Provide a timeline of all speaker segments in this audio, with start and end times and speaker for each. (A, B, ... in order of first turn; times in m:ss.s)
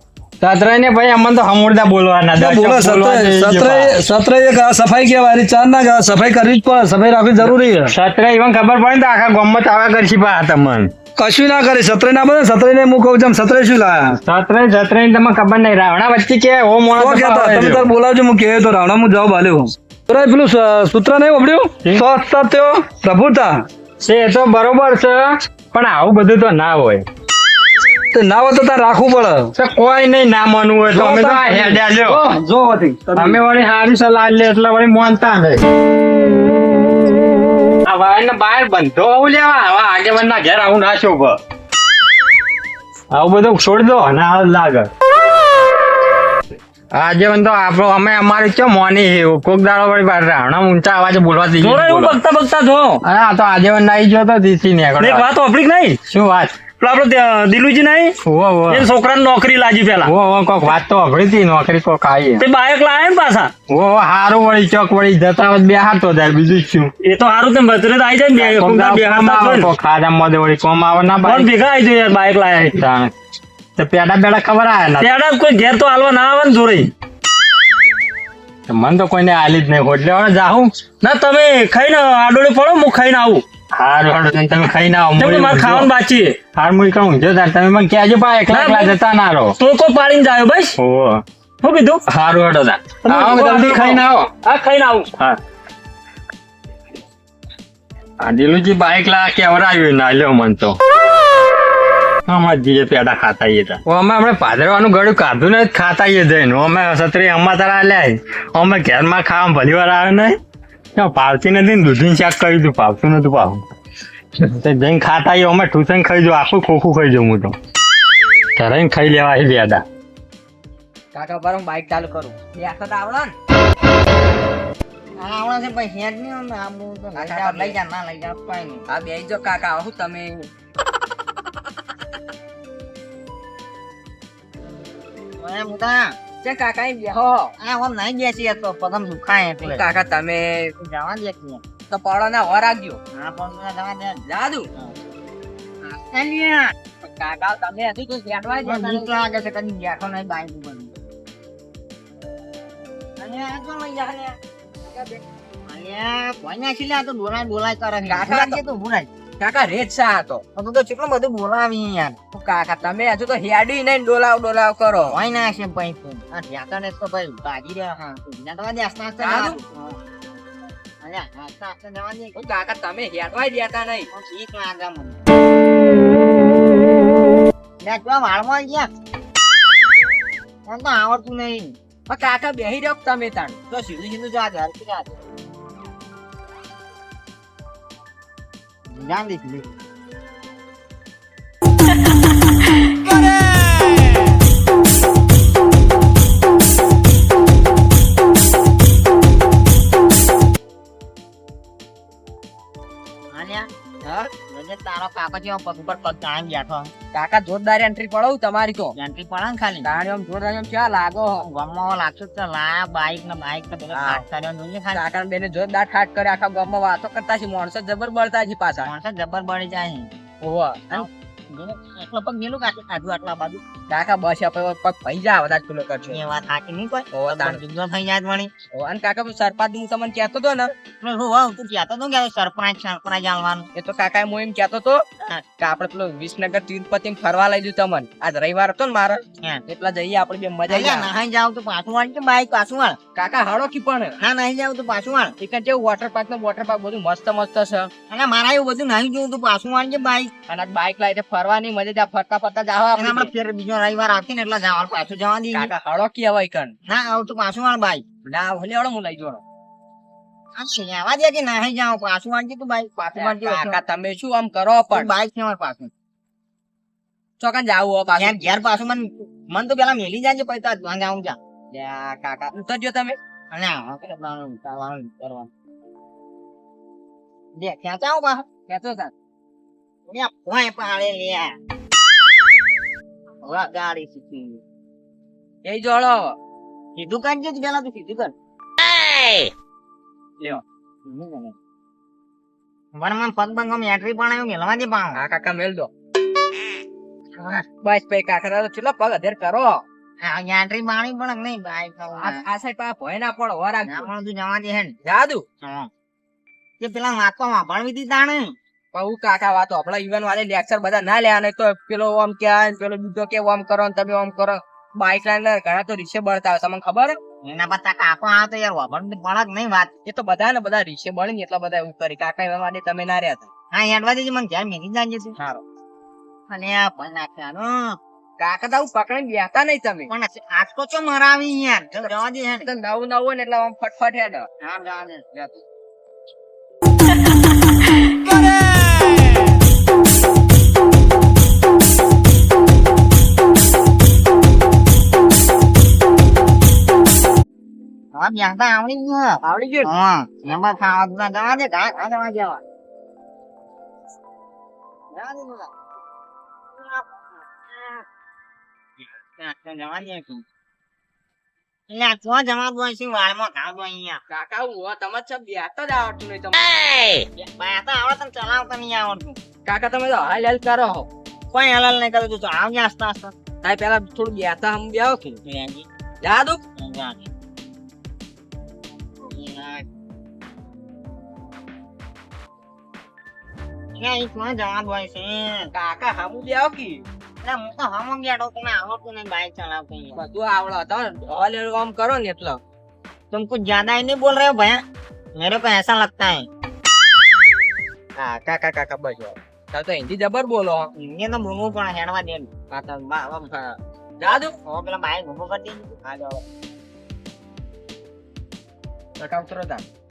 0:00.4-0:04.0 A
0:02.3-0:07.9 B
0:07.4-0:10.9 A
0:11.2-0:14.1 B
0:14.2-0:17.9 A
0:16.9-0:23.6 B
0:24.0-0:25.2 A
0:25.7-0:27.0 A
0:28.1-0:29.5 B
0:29.6-0:32.2 A
0:30.9-0:33.4 B
0:33.1-0:35.6 A
0:37.8-0:41.4 A
0:43.1-0:44.9 A
0:46.9-0:52.2 A
0:51.6-0:53.0 C
0:53.0-0:55.3 A
0:55.0-0:56.0 C
0:56.0-0:56.6 A
0:56.8-0:58.2 C
0:58.2-0:58.8 A
0:58.7-1:00.1 C
1:00.0-1:02.4 A
1:02.4-1:03.5 C
1:03.7-1:06.9 A
1:07.0-1:09.7 C
1:08.3-1:11.5 A
1:11.2-1:12.8 C
1:12.7-1:13.1 A
1:13.8-1:15.1 A
1:15.0-1:16.9 C
1:18.7-1:20.7 A
1:21.0-1:23.4 C
1:23.7-1:25.9 A
1:25.2-1:26.4 C
1:26.5-1:29.5 A
1:28.5-1:29.0 C
1:29.6-1:30.7 C
1:30.8-1:31.2 A
1:31.6-1:32.0 C
1:32.1-1:34.3 A
1:33.0-1:35.1 C
1:38.2-1:40.8 A
1:42.3-1:50.4 A
1:51.0-1:53.6 A
1:54.4-1:57.6 A
1:58.6-1:59.8 A
2:01.1-2:03.3 D
2:05.2-2:08.8 E
2:07.1-2:07.8 D
2:08.9-2:10.5 D
2:15.4-2:16.2 E
2:16.4-2:17.5 D
2:17.6-2:19.8 E
2:19.6-2:20.7 D
2:20.8-2:21.6 E
2:21.9-2:23.0 D
2:23.1-2:24.2 E
2:24.3-2:24.7 D
2:25.8-2:26.7 E
2:27.0-2:29.1 D
2:28.6-2:30.9 E
2:33.2-2:34.4 E
2:35.7-2:39.1 E
2:38.0-2:38.6 D
2:39.4-2:40.4 D
2:40.5-2:42.2 E
2:42.3-2:45.2 D
2:45.1-2:50.0 E
2:49.2-2:49.6 D
2:51.0-2:52.4 E
2:52.3-2:54.1 D
2:54.1-2:55.2 E
2:57.8-2:58.9 E
3:00.6-3:01.7 E
3:02.1-3:03.6 D
3:03.7-3:05.2 E
3:08.9-3:09.7 E
3:23.3-3:26.9 E
3:27.1-3:28.9 D
3:29.0-3:29.9 E
3:29.8-3:31.4 D
3:31.4-3:35.0 E
3:33.9-3:34.2 D
3:34.9-3:38.9 D
3:38.8-3:40.1 E
3:40.4-3:41.0 D
3:40.9-3:43.6 E
3:43.9-3:46.2 D
3:46.1-3:48.5 E
3:47.1-3:47.6 D
3:48.7-3:50.7 D
3:51.0-3:53.7 E
3:53.7-3:55.0 D
3:55.6-4:01.1 D
4:00.7-4:03.0 E
4:03.1-4:04.2 D
4:04.2-4:05.3 E
4:05.4-4:07.9 D
4:08.1-4:10.3 E
4:10.5-4:13.3 D
4:13.0-4:15.7 E
4:15.5-4:16.7 D
4:16.9-4:18.0 E
4:18.2-4:19.4 D
4:20.6-4:23.8 E
4:23.1-4:25.1 D
4:24.9-4:25.9 E
4:27.4-4:28.4 D
4:28.2-4:32.5 E
4:32.5-4:33.2 D
4:33.5-4:35.5 E
4:37.6-4:38.4 E
4:38.7-4:39.1 D
4:40.1-4:41.5 E
4:43.4-4:44.6 E
4:45.6-4:46.4 D
4:47.0-4:48.3 E
4:51.0-4:51.5 E
4:52.9-4:55.2 E
4:55.1-4:55.9 D
4:57.8-4:59.8 D
5:00.2-5:02.4 E
5:02.2-5:04.1 D
5:03.8-5:05.0 E
5:05.0-5:05.4 D
5:05.6-5:05.9 E
5:06.8-5:08.5 E
5:08.9-5:17.2 D
5:17.4-5:19.9 E
5:20.0-5:23.5 D
5:23.7-5:25.6 E
5:26.5-5:28.0 E
5:28.4-5:30.1 D
5:30.1-5:32.7 E
5:32.0-5:34.5 D
5:34.6-5:35.6 E
5:48.1-5:52.6 E
5:49.4-5:49.9 D
5:55.1-5:55.7 E
5:56.8-5:58.0 E
5:59.4-6:00.4 E
6:01.9-6:04.2 E
6:04.3-6:06.7 D
6:07.4-6:09.4 E
6:09.6-6:11.1 D
6:11.5-6:13.3 E
6:13.6-6:15.4 D
6:15.4-6:15.9 E
6:16.2-6:16.6 D
6:16.8-6:17.3 E
6:19.2-6:19.8 E
6:24.0-6:25.7 E
6:25.7-6:27.0 D
6:27.4-6:30.2 E
6:30.2-6:32.6 D
6:33.3-6:34.8 E
6:35.4-6:36.5 E
6:38.2-6:40.9 D
6:41.0-6:42.5 E
6:42.7-6:44.5 D
6:44.2-6:46.2 E
6:49.2-6:49.8 D